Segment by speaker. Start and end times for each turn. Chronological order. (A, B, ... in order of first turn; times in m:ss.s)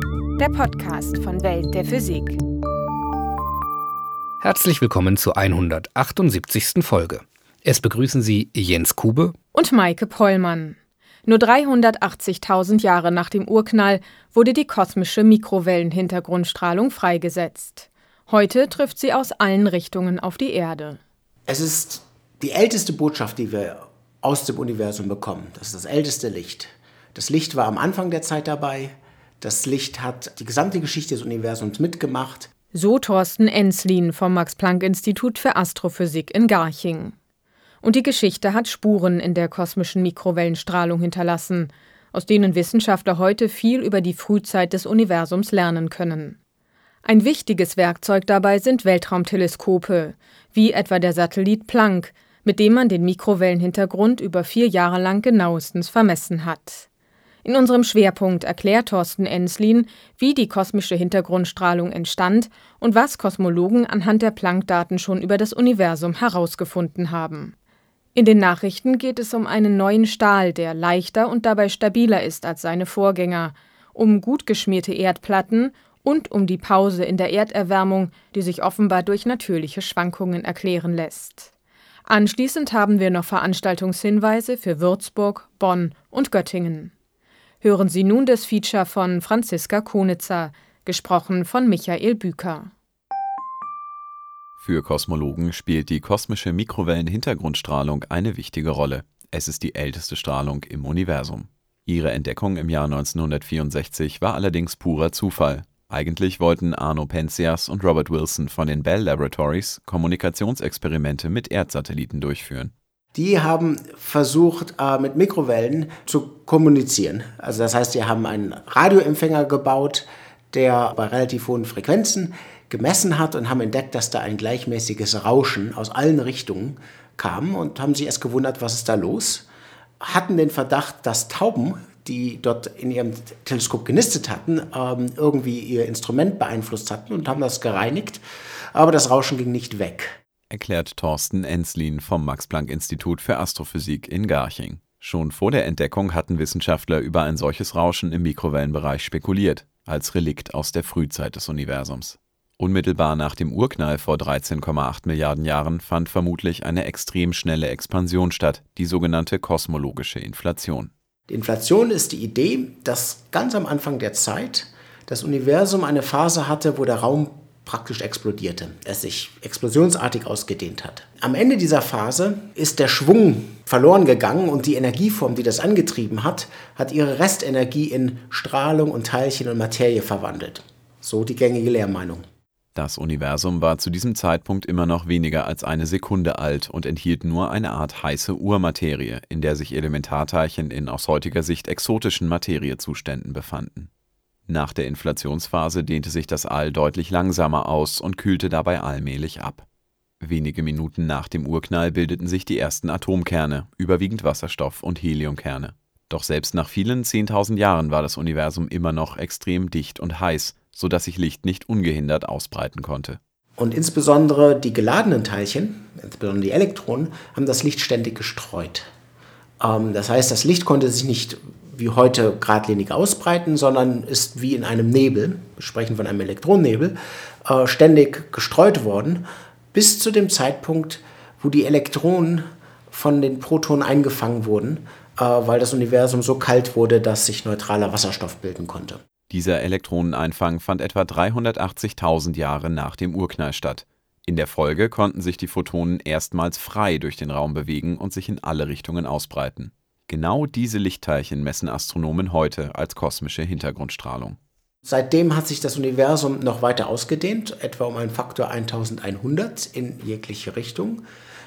0:00.4-0:02.4 A
0:04.4-0:09.4 B
0:09.5-0:21.0 A
0:21.5-0:32.5 C
0:32.7-0:37.1 A
0:37.8-0:46.4 A
0:47.0-0:56.9 A
0:57.4-1:07.6 A
1:08.2-1:21.5 A
1:22.1-1:26.9 A
1:27.6-1:32.7 A
1:34.6-1:52.7 D
1:53.1-2:09.4 C
2:10.0-2:18.2 C
2:18.7-2:20.1 C
2:20.5-2:40.9 D
2:41.3-3:02.2 C
3:02.7-3:13.9 D
3:14.5-3:19.7 D
3:20.2-3:33.2 D
3:33.6-3:38.8 C
3:39.6-3:46.9 C
3:47.4-3:59.0 C
3:59.3-4:14.4 D
4:14.8-4:21.0 C